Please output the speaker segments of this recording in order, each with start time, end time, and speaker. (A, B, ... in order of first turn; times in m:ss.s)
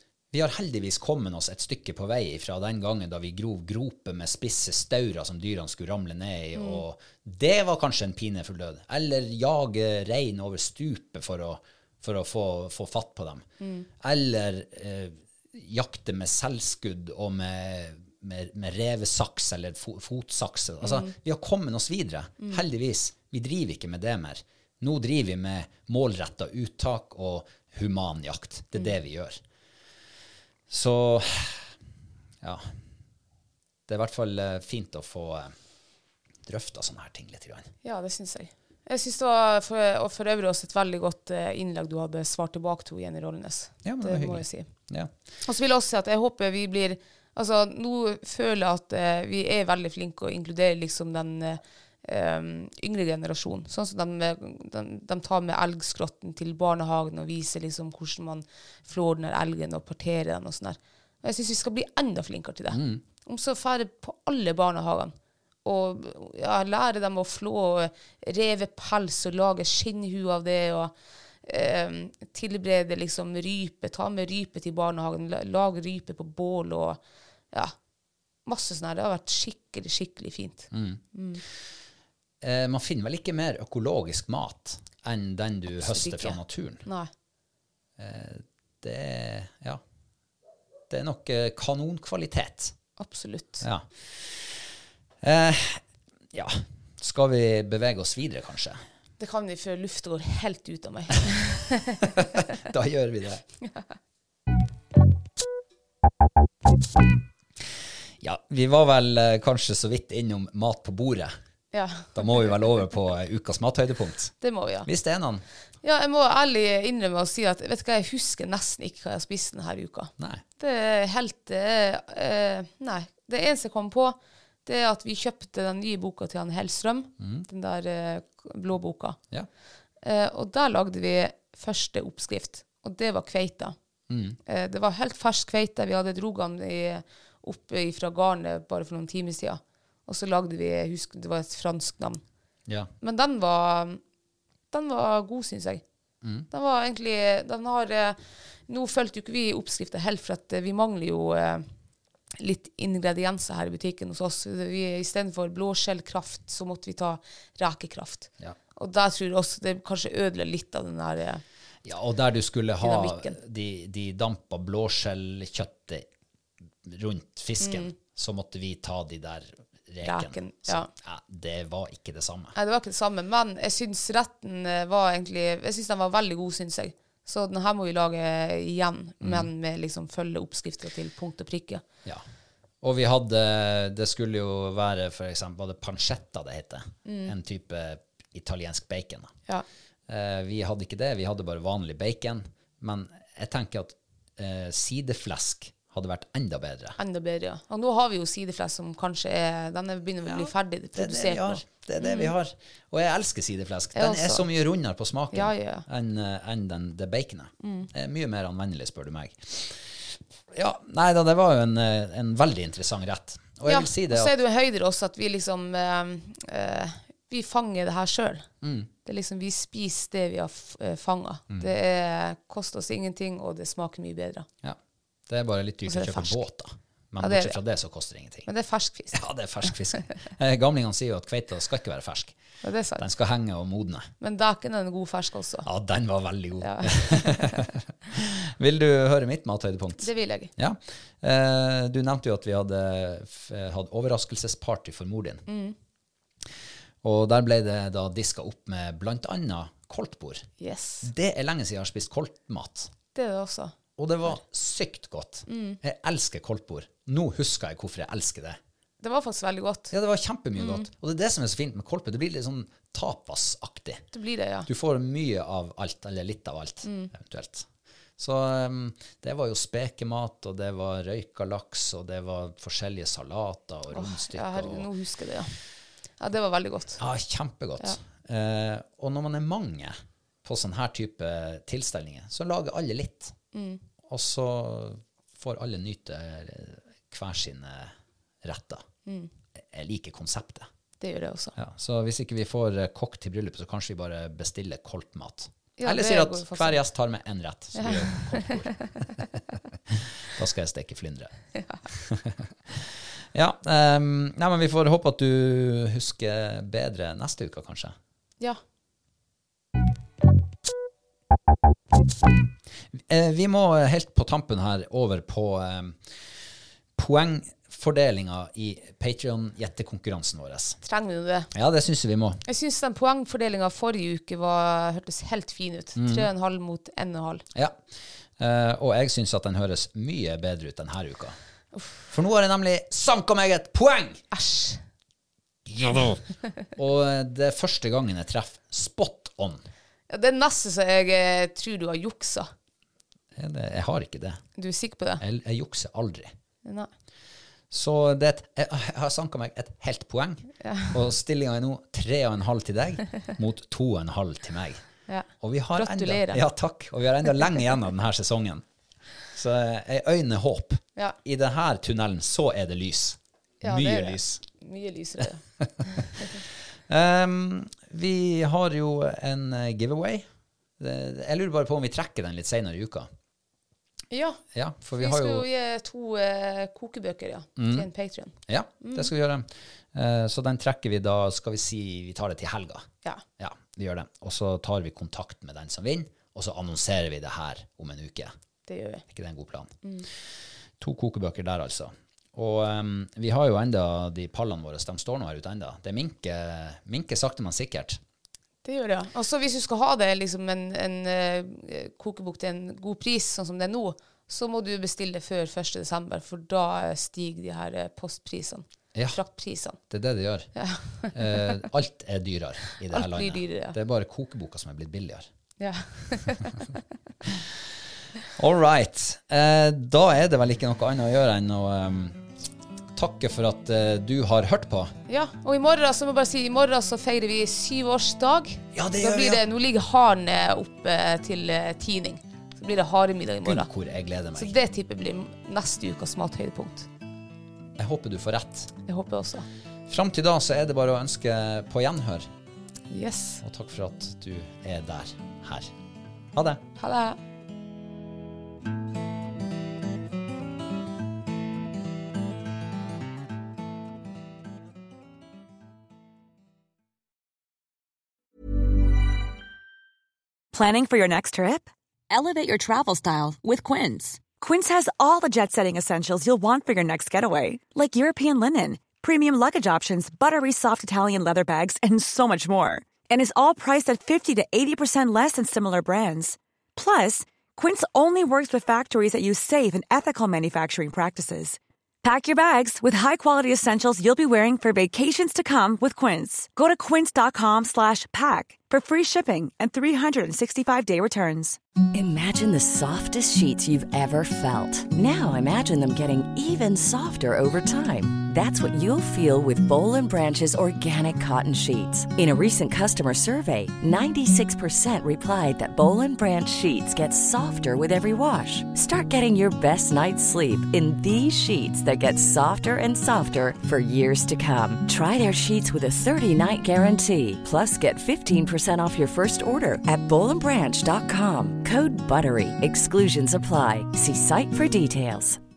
0:00.3-0:13.4 A
0:06.6-0:06.8 B
0:13.6-0:13.9 B
0:14.0-0:29.4 A
0:20.8-0:21.1 B
0:30.7-0:31.7 A
0:33.9-0:35.5 A
0:36.4-0:37.7 A
0:37.8-0:44.7 B
0:43.8-0:45.1 A
0:45.4-1:05.1 B
1:02.7-1:03.0 A
1:05.6-1:10.9 B
1:11.4-1:17.0 B
1:18.4-1:21.4 B
1:20.7-1:21.0 A
1:22.4-1:26.8 A
1:25.7-1:27.1 B
1:28.0-1:29.8 A
1:30.9-1:32.8 A
1:33.0-1:33.6 B
1:33.6-1:34.6 A
1:35.2-1:38.8 A
1:39.2-1:42.4 B
1:42.0-1:43.4 A
1:48.2-1:51.3 A
1:51.7-1:52.4 B
1:52.1-1:55.4 A
1:54.4-1:54.9 B
1:55.8-2:09.2 B
2:00.2-2:00.4 A
2:07.2-2:07.4 A
2:10.0-2:13.7 B
2:14.1-2:14.4 A
2:14.4-2:22.2 B
2:22.6-2:22.9 A
2:23.0-2:24.0 B
2:24.7-2:25.8 B
2:26.2-2:26.5 A
2:26.5-2:31.6 B
2:32.4-2:41.4 B
2:41.8-2:46.0 A
2:42.8-2:43.4 B
2:46.8-2:52.5 A
2:47.6-2:47.9 B
2:50.0-2:50.9 B
2:52.5-3:01.8 B
2:59.2-2:59.5 A
3:02.8-3:09.3 A
3:07.0-3:07.3 B
3:10.1-3:17.0 A
3:17.0-3:22.3 B
3:20.2-3:34.3 A
3:23.9-3:24.4 B
3:25.3-3:25.8 B
3:27.6-3:27.9 B
3:33.7-3:38.4 B
3:38.6-3:38.9 A
3:39.0-3:44.5 B
3:44.6-3:48.5 A
3:45.8-3:46.4 B
3:47.2-3:47.6 B
3:48.4-3:49.7 B
3:49.1-3:52.4 A
3:52.6-3:53.0 B
3:53.0-3:54.1 A
3:54.2-3:55.6 B
3:55.6-4:05.4 A
3:56.6-3:57.6 B
4:00.0-4:00.5 B
4:05.5-4:05.8 B
4:07.0-4:10.5 A
4:10.6-4:11.1 B
4:11.0-4:12.9 A
4:13.1-4:13.7 B
4:14.0-4:18.6 A
4:15.5-4:15.8 B
4:19.0-4:19.9 B
4:19.9-4:24.0 A
4:20.6-4:20.8 B
4:24.1-4:24.7 B
4:24.7-4:34.9 A
4:26.8-4:27.1 B
4:33.9-4:35.6 B
4:36.2-4:37.0 B
4:37.0-4:43.4 A
4:43.5-4:43.8 B
4:44.0-4:48.8 A
4:49.6-4:50.7 A
4:51.0-4:51.6 B
4:51.6-5:01.3 A
4:55.8-4:56.8 B
4:57.7-4:58.9 B
5:01.5-5:01.8 B
5:01.9-5:07.9 A
5:13.0-5:16.0 A
5:17.0-5:20.8 A
5:20.8-5:21.5 B
5:21.5-5:22.4 A
5:22.4-5:27.4 B
5:25.9-5:26.3 A
5:28.4-5:31.4 A
5:32.1-5:34.2 A
5:34.3-5:34.8 B
5:35.6-5:36.2 A
5:36.8-5:39.7 A
5:40.1-5:42.5 B
5:43.3-5:44.4 A
5:44.6-5:45.2 B
5:45.2-5:46.3 A
5:46.6-5:46.9 B
5:47.7-5:54.8 A
5:50.6-5:50.9 B
5:55.1-5:56.4 B
5:55.4-5:58.6 A
5:59.3-6:04.4 A
6:03.6-6:06.4 B
6:05.6-6:06.3 A
6:06.9-6:10.3 A
6:10.8-6:13.1 A
6:14.1-6:14.4 B
6:14.5-6:15.5 A
6:15.0-6:19.1 B
6:17.6-6:17.9 A
6:18.5-6:22.9 A
6:23.4-6:28.3 A
6:28.7-6:29.0 B
6:29.1-6:29.7 A
6:30.8-6:38.0 A
6:38.6-6:49.8 B
6:48.9-6:49.2 A
6:49.8-6:50.5 A
6:50.5-6:51.6 B
6:51.1-6:55.3 A
6:52.9-6:53.8 B
6:55.6-6:56.6 B
6:57.2-6:57.7 A
6:58.4-7:02.2 A
7:02.9-7:04.9 A
7:05.1-7:13.7 B
7:08.7-7:09.4 A
7:13.4-7:14.6 A
7:14.3-7:16.9 B
7:17.8-7:18.7 A
7:18.8-7:19.4 B
7:19.9-7:22.3 A
7:22.9-7:23.4 B
7:23.4-7:25.7 A
7:26.3-7:26.6 A
7:26.8-7:27.2 B
7:40.5-8:11.6 C
8:11.9-8:45.4 D